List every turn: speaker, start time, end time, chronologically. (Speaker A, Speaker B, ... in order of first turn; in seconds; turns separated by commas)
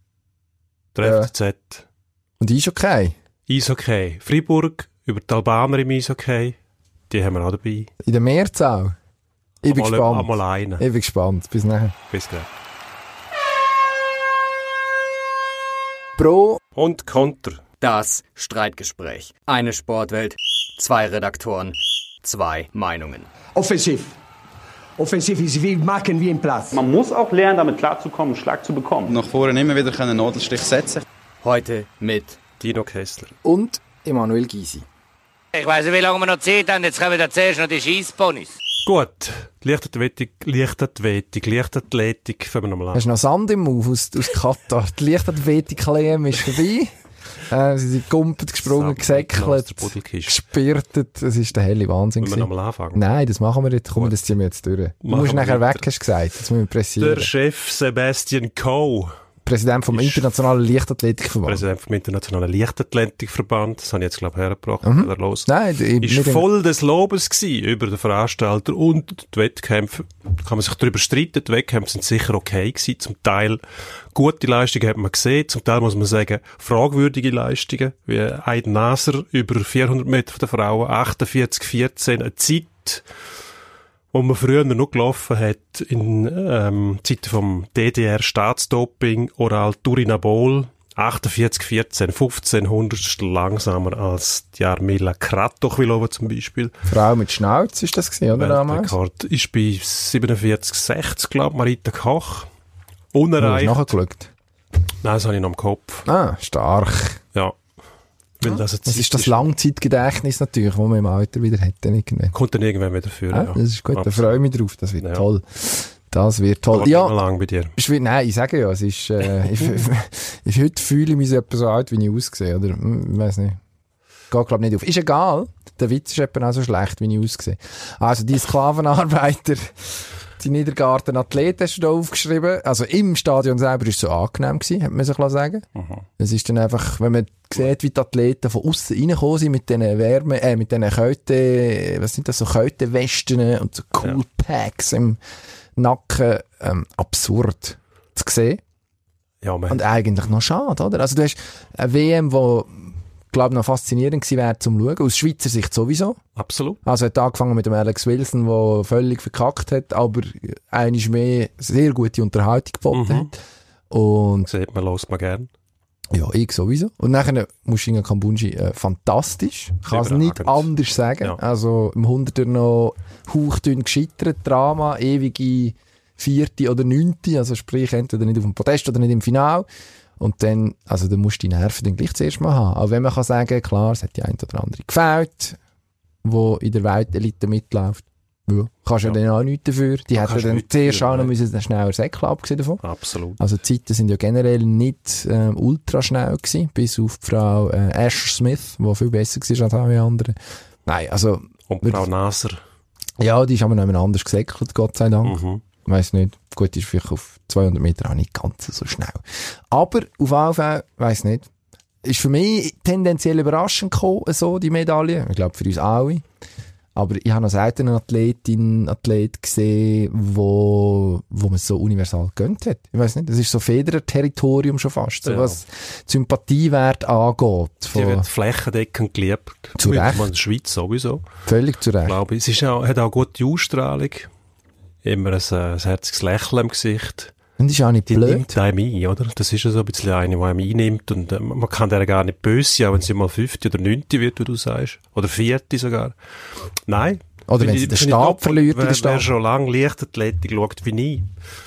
Speaker A: 0.9-1.8, Speaker B: 1.0-1.3, Speaker B: 2.4-3.1, Speaker A: 3.5-6.6, Speaker A: 7.1-7.9, Speaker B: 8.0-8.9, Speaker B: 9.6-11.9, Speaker A: 9.6-10.8, Speaker A: 12.1-12.5, Speaker B: 16.2-16.6, Speaker A: 16.8-17.6, Speaker C: 17.8-23.3, Speaker D: 23.5-24.2, Speaker D: 25.0-26.8, Speaker E: 26.7-29.1, Speaker F: 29.1-31.0, Speaker C: 31.4-32.4, Speaker A: 32.6-33.3, Speaker B: 33.4-34.9, Speaker G: 35.5-38.5, Speaker A: 38.8-43.1, Speaker B: 42.9-46.9, Speaker B: 47.5-57.3, Speaker A: 48.6-50.4, Speaker A: 52.2-53.0, Speaker A: 55.0-55.9, Speaker A: 57.0-59.1, Speaker B: 59.4-61.6, Speaker A: 59.9-60.2, Speaker A: 61.5-65.5, Speaker B: 64.8-66.5, Speaker A: 66.0-73.6, Speaker A: 74.1-83.0, Speaker A: 84.1-96.7, Speaker B: 96.9-98.9, Speaker A: 98.3-102.5, Speaker A: 103.1-103.9, Speaker B: 103.4-104.3, Speaker A: 105.0-106.1, Speaker B: 106.0-107.2, Speaker A: 108.4-109.5, Speaker B: 108.5-112.3, Speaker A: 112.3-114.4, Speaker B: 113.3-117.2, Speaker A: 115.0-115.3, Speaker A: 116.7-117.7, Speaker B: 117.8-123.6, Speaker B: 124.3-135.7, Speaker A: 135.8-136.0, Speaker B: 136.2-145.2, Speaker B: 145.8-148.6, Speaker A: 149.4-149.8, Speaker B: 149.7-156.2, Speaker A: 156.3-156.8, Speaker B: 156.8-163.4, Speaker A: 162.9-163.3, Speaker B: 163.9-164.5, Speaker A: 164.5-165.5, Speaker B: 166.1-179.7, Speaker A: 169.8-170.7, Speaker B: 180.2-185.6, Speaker B: 186.2-192.8, Speaker A: 190.1-191.3, Speaker A: 192.8-193.4, Speaker B: 193.4-202.1, Speaker A: 201.7-202.6, Speaker B: 203.2-211.5, Speaker A: 205.2-205.6, Speaker B: 212.0-216.2, Speaker B: 216.9-228.2, Speaker A: 225.2-225.6, Speaker A: 227.9-231.2, Speaker B: 229.8-230.3, Speaker B: 231.5-232.2, Speaker A: 232.0-234.3, Speaker A: 235.0-237.3, Speaker B: 237.6-238.5, Speaker A: 238.1-246.2, Speaker A: 246.9-251.3, Speaker B: 247.5-249.3